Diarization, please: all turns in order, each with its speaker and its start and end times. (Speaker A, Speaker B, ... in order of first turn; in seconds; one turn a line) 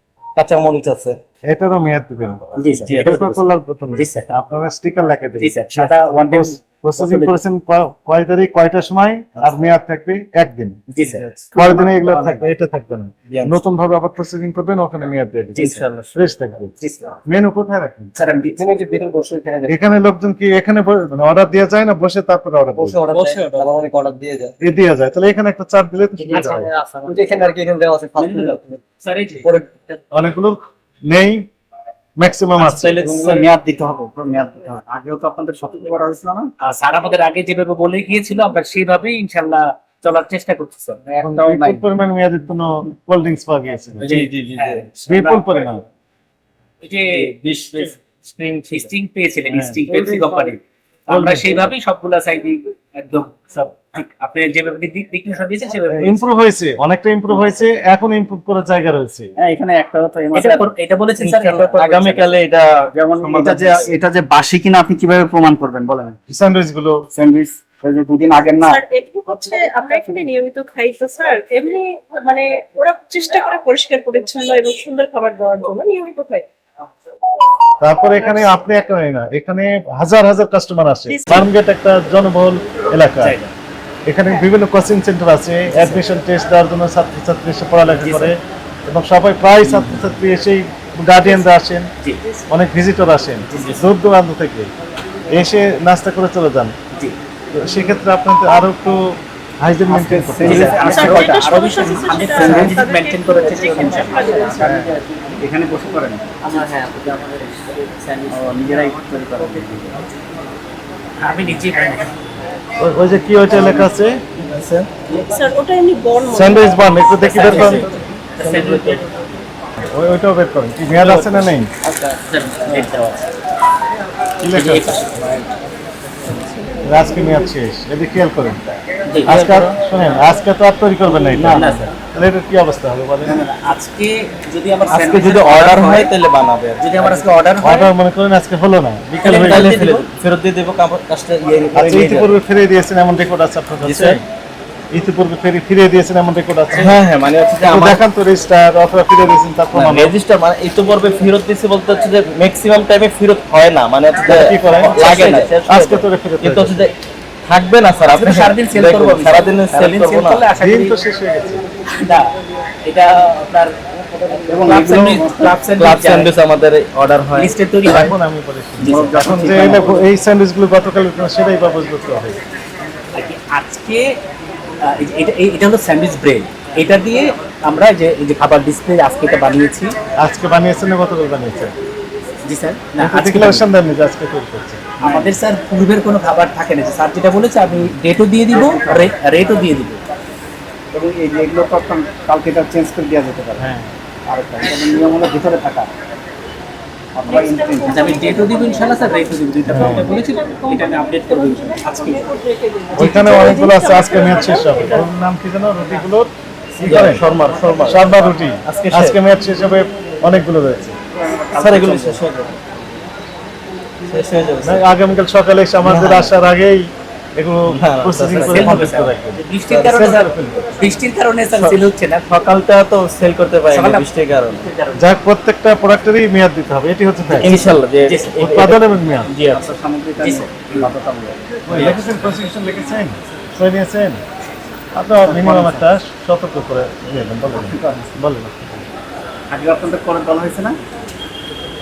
Speaker A: 0.4-1.2
Speaker B: 1.5-5.6
Speaker C: 2.6-3.3
Speaker A: 2.8-3.3
Speaker C: 4.0-4.3
Speaker C: 5.4-7.4
Speaker B: 6.2-10.8
Speaker C: 10.9-12.4
Speaker B: 11.3-16.7
Speaker A: 13.3-13.6
Speaker C: 15.6-16.1
Speaker C: 16.8-17.2
Speaker B: 17.3-18.1
Speaker C: 18.1-19.7
Speaker B: 19.7-23.0
Speaker C: 22.9-23.8
Speaker A: 23.0-24.5
Speaker B: 24.6-26.7
Speaker C: 26.3-30.0
Speaker A: 27.1-28.6
Speaker B: 30.1-31.5
Speaker B: 32.2-32.9
Speaker A: 32.6-33.5
Speaker C: 33.0-33.4
Speaker D: 33.0-36.5
Speaker C: 36.6-41.8
Speaker B: 41.2-44.1
Speaker A: 44.0-44.9
Speaker C: 44.0-45.6
Speaker B: 45.1-45.9
Speaker C: 46.8-47.8
Speaker A: 47.1-48.9
Speaker C: 48.5-56.2
Speaker B: 49.5-49.8
Speaker D: 49.9-50.4
Speaker B: 51.1-51.6
Speaker B: 55.9-59.3
Speaker D: 59.4-60.7
Speaker C: 60.3-62.3
Speaker A: 61.2-63.7
Speaker D: 63.0-66.2
Speaker C: 63.3-63.9
Speaker B: 66.3-67.0
Speaker D: 67.1-68.8
Speaker E: 68.7-76.5
Speaker B: 77.8-83.3
Speaker C: 83.2-83.5
Speaker B: 84.1-91.9
Speaker C: 85.7-86.0
Speaker C: 88.0-88.3
Speaker C: 89.6-90.0
Speaker B: 92.5-94.7
Speaker C: 93.5-93.8
Speaker B: 95.3-96.8
Speaker B: 97.5-101.2
Speaker D: 99.9-104.3
Speaker C: 100.4-105.4
Speaker E: 100.8-104.7
Speaker B: 104.6-105.0
Speaker D: 105.4-106.2
Speaker C: 106.4-108.4
Speaker D: 108.3-109.9
Speaker C: 111.2-112.1
Speaker B: 112.8-114.2
Speaker A: 113.5-113.8
Speaker A: 114.4-114.9
Speaker E: 115.3-117.0
Speaker B: 116.3-117.9
Speaker C: 117.2-119.1
Speaker A: 117.4-117.9
Speaker A: 118.4-119.0
Speaker B: 119.9-121.7
Speaker A: 121.0-121.5
Speaker C: 121.9-123.2
Speaker B: 124.4-125.0
Speaker C: 124.5-125.5
Speaker B: 126.8-128.6
Speaker A: 129.2-129.8
Speaker B: 129.2-133.4
Speaker A: 131.3-131.9
Speaker C: 131.4-131.9
Speaker C: 133.2-136.1
Speaker A: 134.9-137.2
Speaker C: 136.8-137.9
Speaker B: 137.6-139.8
Speaker C: 139.2-140.1
Speaker A: 139.2-142.4
Speaker B: 141.7-144.2
Speaker A: 143.8-144.2
Speaker B: 144.9-147.0
Speaker A: 146.7-148.0
Speaker B: 147.6-150.1
Speaker A: 149.7-156.9
Speaker B: 154.2-155.0
Speaker C: 154.3-155.5
Speaker B: 155.7-156.9
Speaker A: 157.5-160.5
Speaker C: 158.1-161.0
Speaker B: 160.6-161.7
Speaker C: 162.0-162.3
Speaker C: 162.8-166.3
Speaker D: 164.5-165.6
Speaker A: 165.8-167.5
Speaker C: 167.4-168.1
Speaker B: 167.8-172.4
Speaker D: 168.8-169.9
Speaker C: 168.8-169.8
Speaker C: 173.1-174.2
Speaker C: 174.8-179.9
Speaker B: 180.2-181.8
Speaker C: 182.4-183.7
Speaker B: 183.0-184.8
Speaker D: 185.0-185.4
Speaker C: 185.0-190.0
Speaker D: 190.9-193.6
Speaker B: 193.6-193.9
Speaker D: 194.3-195.9
Speaker D: 197.2-198.5
Speaker E: 197.3-205.1
Speaker C: 197.8-202.3
Speaker B: 199.7-200.2
Speaker B: 202.9-207.2
Speaker A: 206.8-208.1
Speaker B: 207.8-211.0
Speaker A: 208.6-209.2
Speaker C: 211.2-212.2
Speaker A: 211.5-212.5
Speaker A: 214.1-215.0
Speaker B: 214.6-220.8
Speaker A: 215.8-216.4
Speaker A: 217.7-218.9
Speaker C: 218.4-222.3
Speaker A: 219.7-220.2
Speaker A: 222.3-224.7
Speaker C: 223.7-224.1
Speaker C: 224.6-225.0
Speaker B: 225.0-227.7
Speaker A: 227.3-228.8
Speaker C: 227.5-228.3
Speaker B: 228.4-229.3
Speaker D: 229.4-231.4
Speaker C: 230.2-230.9
Speaker B: 231.7-234.2
Speaker A: 231.7-232.0
Speaker B: 234.9-238.8
Speaker C: 235.2-235.8
Speaker D: 237.5-238.1
Speaker D: 239.5-240.8